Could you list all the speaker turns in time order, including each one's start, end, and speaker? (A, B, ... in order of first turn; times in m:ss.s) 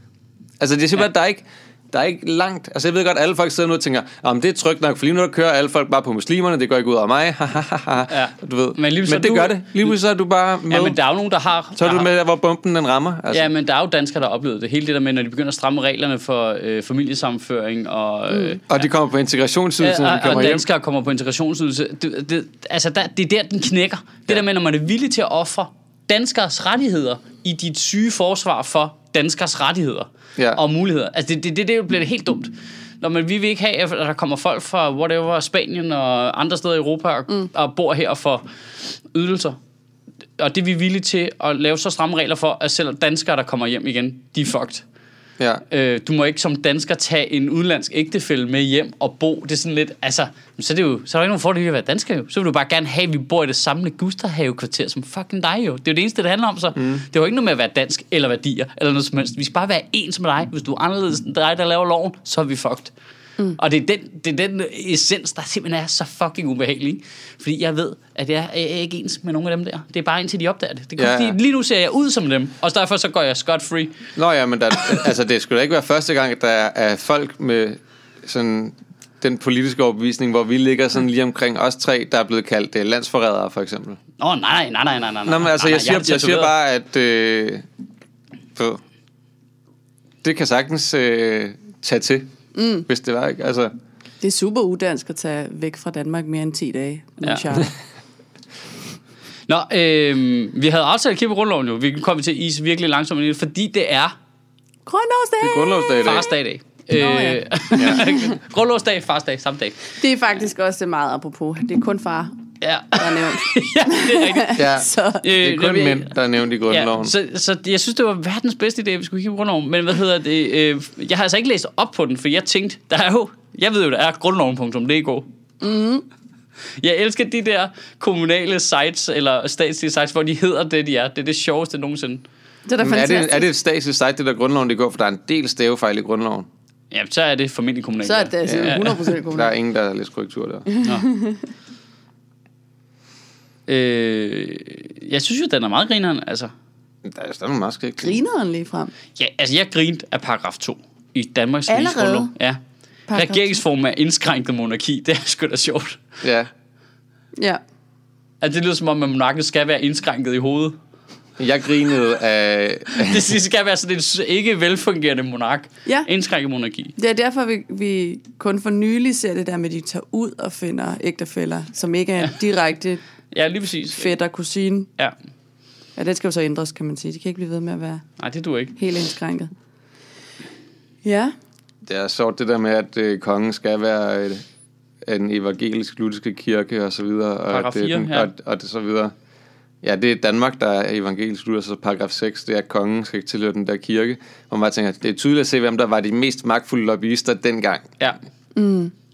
0:00.6-0:11.0 A
0:08.1-0:09.9 B
0:10.7-0:12.1 B
0:11.8-0:13.5 A
0:13.3-0:18.8 B
0:18.7-0:20.6 A
0:19.8-0:38.4 B
0:39.1-0:39.6 B
0:40.4-0:44.8 B
0:45.4-0:45.6 A
0:45.7-1:02.9 B
0:56.8-0:57.0 A
1:03.5-1:13.9 B
1:11.0-1:11.4 A
1:14.2-1:24.0 A
1:24.2-1:26.5 B
1:25.2-1:27.6 A
1:28.5-1:28.8 A
1:30.2-1:32.3 A
1:32.5-1:32.8 C
1:32.8-1:33.7 A
1:34.2-1:37.7 C
1:39.5-1:44.1 B
1:44.8-1:46.2 C
1:45.4-1:46.3 A
1:46.0-1:49.9 B
1:47.0-1:48.3 C
1:47.8-1:48.0 A
1:50.0-1:55.3 C
1:52.6-1:54.6 B
1:54.6-1:57.1 A
1:55.2-1:56.1 B
1:56.7-2:05.3 B
2:05.6-2:06.0 C
2:06.8-2:12.2 B
2:12.6-2:13.5 C
2:12.8-2:16.5 A
2:16.9-2:19.0 B
2:18.0-2:19.5 C
2:18.4-2:20.7 A
2:20.7-2:21.4 C
2:23.7-2:26.5 B
2:27.0-2:28.2 A
2:28.0-2:28.9 C
2:29.2-2:32.6 B
2:31.7-2:32.3 C
2:33.1-2:33.6 C
2:33.1-2:36.0 B
2:36.2-2:36.5 A
2:38.4-2:40.8 B
2:41.4-2:43.3 A
2:42.9-2:46.9 B
2:47.0-2:53.0 C
2:53.3-2:54.1 B
2:53.9-2:54.9 C
2:56.0-2:58.0 C
2:58.2-2:58.8 B
2:58.8-2:59.5 C
3:01.0-3:01.3 C
3:01.8-3:04.4 A
3:05.0-3:09.1 A
3:07.5-3:08.3 B
3:09.8-3:18.0 A
3:18.5-3:18.9 C